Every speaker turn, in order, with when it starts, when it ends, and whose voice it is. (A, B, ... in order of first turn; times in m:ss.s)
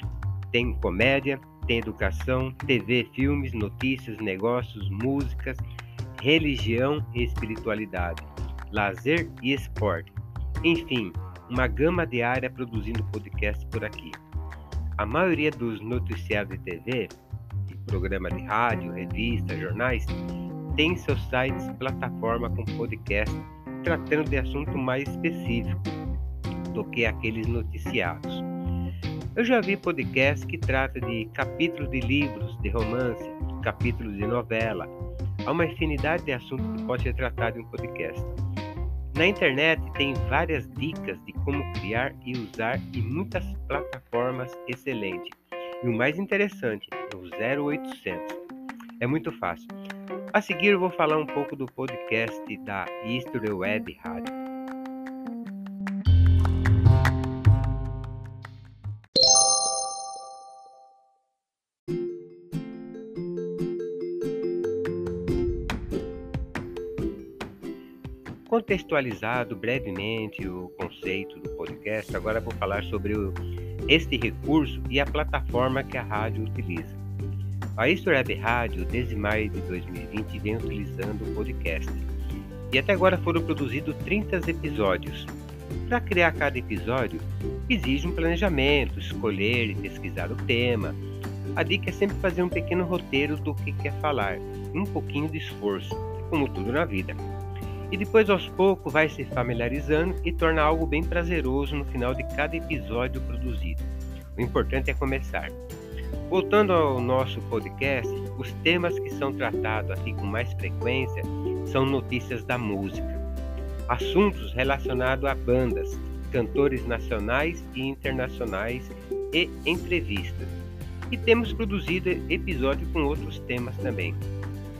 0:00.5-0:14.2 A
0:15.0-0:20.2 A
0:20.7-0:26.0 A
0:26.7-0:28.4 A
0:29.4-0:34.9 A
0:35.4-0:38.4 A
0:39.1-0:48.4 A
0:49.0-0:49.7 A
0:50.3-0:54.3 A
1:08.5-1:13.4 A
1:13.9-1:17.0 A
1:17.8-1:22.1 A
1:22.7-1:25.3 A
1:25.8-1:31.0 A
1:31.6-1:37.2 A
1:37.9-1:45.6 A
1:46.3-1:53.2 A
1:53.9-2:00.5 A
2:01.1-2:04.2 A